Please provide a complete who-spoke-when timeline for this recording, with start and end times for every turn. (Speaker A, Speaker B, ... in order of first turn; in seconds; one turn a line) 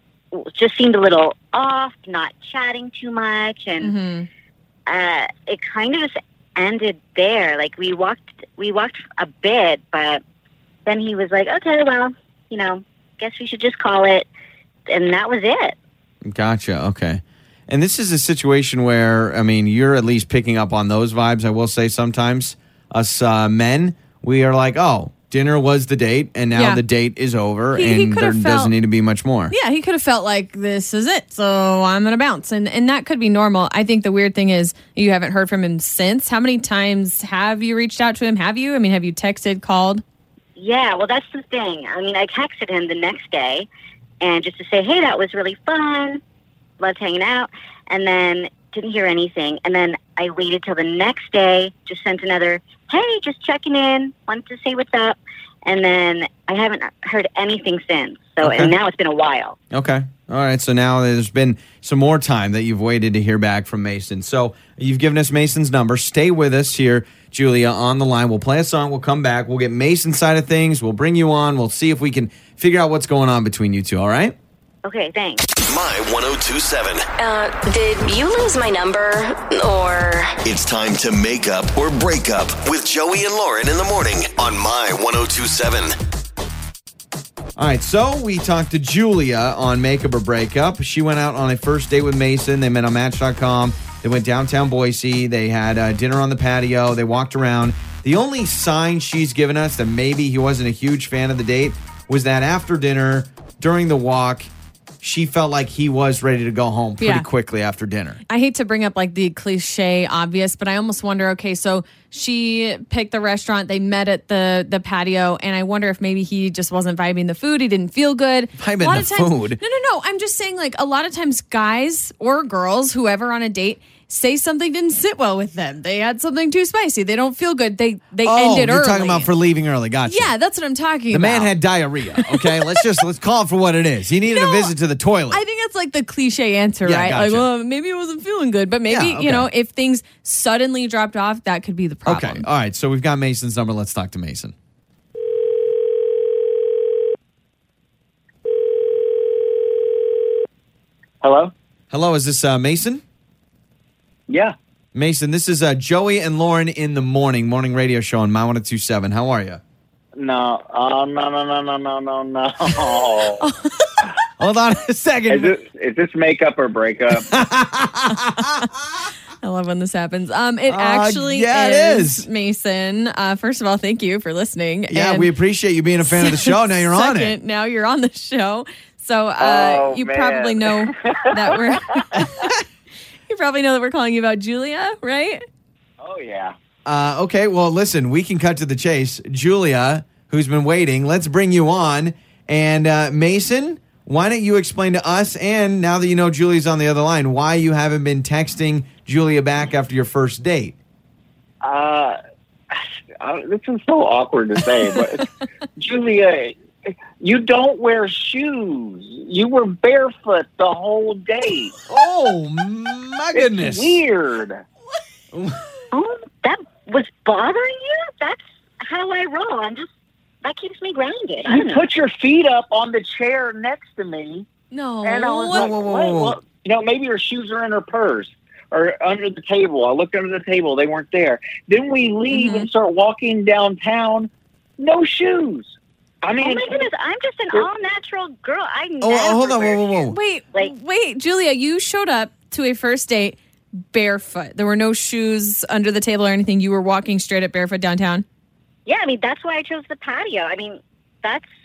Speaker A: 0.3-3.9
Speaker B: 3.8-4.3
Speaker A: 4.9-10.2
Speaker A: 10.8-14.3
Speaker A: 14.9-15.8
Speaker C: 16.2-29.5
Speaker B: 26.5-26.8
Speaker B: 27.7-28.7
Speaker B: 29.5-40.0
Speaker A: 40.5-43.7
Speaker A: 44.2-46.2
Speaker A: 46.8-59.6
Speaker C: 58.4-58.7
Speaker C: 59.7-74.3
Speaker A: 74.8-75.4
Speaker D: 75.6-77.1
Speaker E: 77.2-80.4
Speaker D: 80.4-85.9
Speaker C: 87.6-104.5
Speaker C: 105.0-108.2
Speaker B: 107.0-107.2
Speaker B: 108.3-129.3
Speaker C: 118.6-119.6
Speaker C: 128.2-130.3
Speaker B: 130.1-131.5
Speaker C: 131.1-135.4
Speaker B: 132.1-132.8
Speaker B: 134.3-134.7
Speaker B: 135.3-142.4
Speaker C: 136.8-137.5
Speaker C: 138.9-139.5
Speaker C: 142.1-144.5
Speaker F: 151.2-151.5
Speaker C: 151.9-153.0
Speaker F: 154.3-154.5
Speaker C: 154.9-159.6
Speaker F: 160.2-163.4
Speaker B: 163.4-163.9
Speaker C: 164.4-165.5
Speaker F: 165.3-167.3
Speaker C: 167.3-168.7
Speaker B: 169.4-175.3
Speaker C: 170.7-172.2
Speaker C: 174.9-177.3
Speaker B: 176.0-182.6
Speaker F: 179.4-182.1
Speaker C: 182.2-182.5
Speaker B: 183.3-185.4
Speaker F: 186.0-186.6
Speaker C: 186.8-200.8
Speaker F: 201.6-202.2
Speaker F: 202.7-211.7
Speaker C: 211.9-214.0
Speaker F: 213.3-214.6
Speaker C: 215.3-215.6
Speaker A: 215.9-219.9
Speaker A: 220.4-221.8
Speaker F: 221.4-224.5
Speaker B: 224.7-225.7
Speaker F: 225.0-236.8
Speaker C: 225.5-226.4
Speaker B: 232.3-232.7
Speaker A: 236.4-239.9
Speaker C: 239.0-240.2
Speaker B: 240.1-248.2
Speaker A: 248.8-251.5